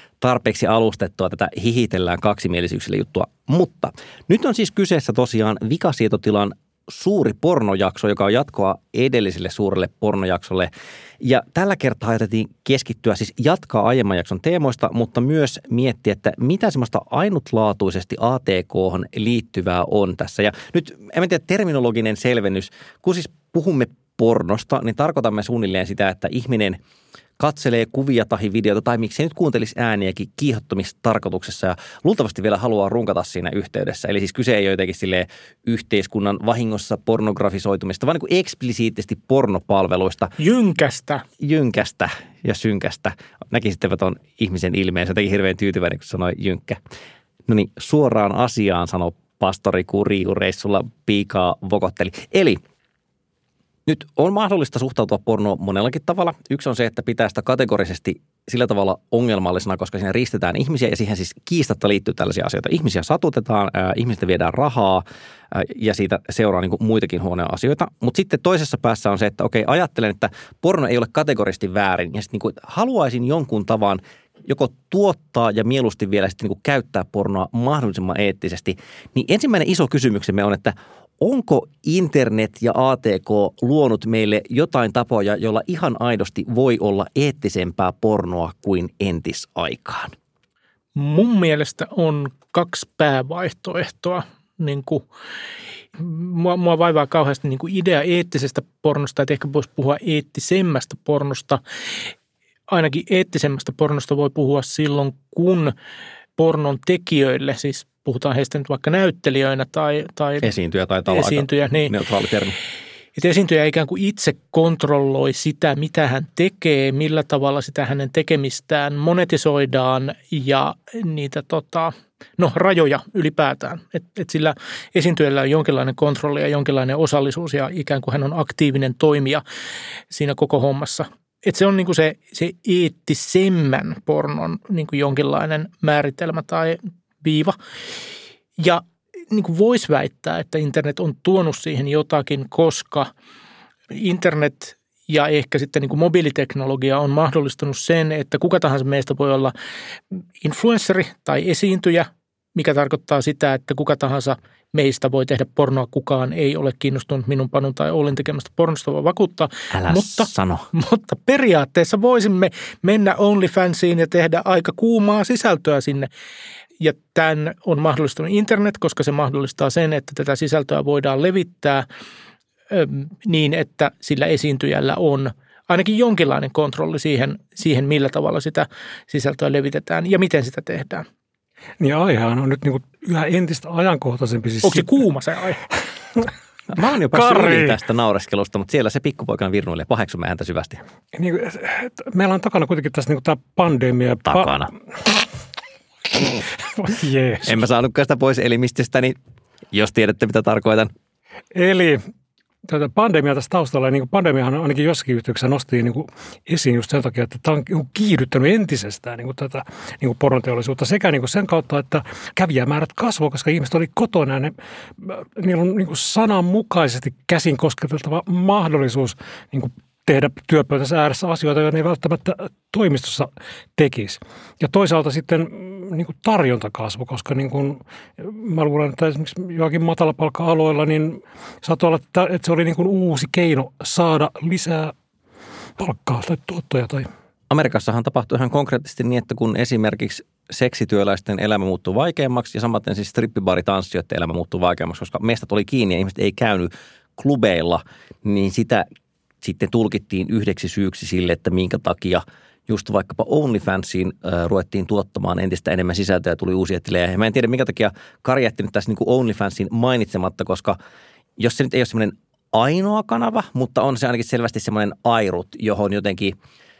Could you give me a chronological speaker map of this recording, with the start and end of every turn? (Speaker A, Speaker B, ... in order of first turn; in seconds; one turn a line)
Speaker A: 0.2-26.8
Speaker A: 27.4-40.4
Speaker B: 40.4-41.2
Speaker A: 41.4-46.8
Speaker A: 47.5-52.6
Speaker A: 53.9-90.1
Speaker B: 91.0-95.0
Speaker B: 96.0-101.6
Speaker B: 102.7-105.7
Speaker B: 106.4-110.5
Speaker A: 110.4-112.5
Speaker B: 111.1-111.9
Speaker B: 113.2-129.4
Speaker B: 130.1-137.5
Speaker B: 138.6-143.1
Speaker B: 143.9-149.5
Speaker B: 150.4-166.1
Speaker A: 159.7-160.7
Speaker B: 166.8-171.8
Speaker B: 172.7-181.1
Speaker C: 181.8-185.0
Speaker B: 184.6-185.6
Speaker A: 186.7-190.8
Speaker C: 187.1-187.8
Speaker C: 191.1-194.6
Speaker A: 194.2-194.7
Speaker C: 196.3-197.6
Speaker A: 197.4-199.2
Speaker A: 199.7-200.9
Speaker C: 201.5-202.0
Speaker C: 202.6-234.9
Speaker C: 235.8-237.1
Speaker A: 237.5-248.8
Speaker A: 249.4-260.8
Speaker A: 261.4-266.3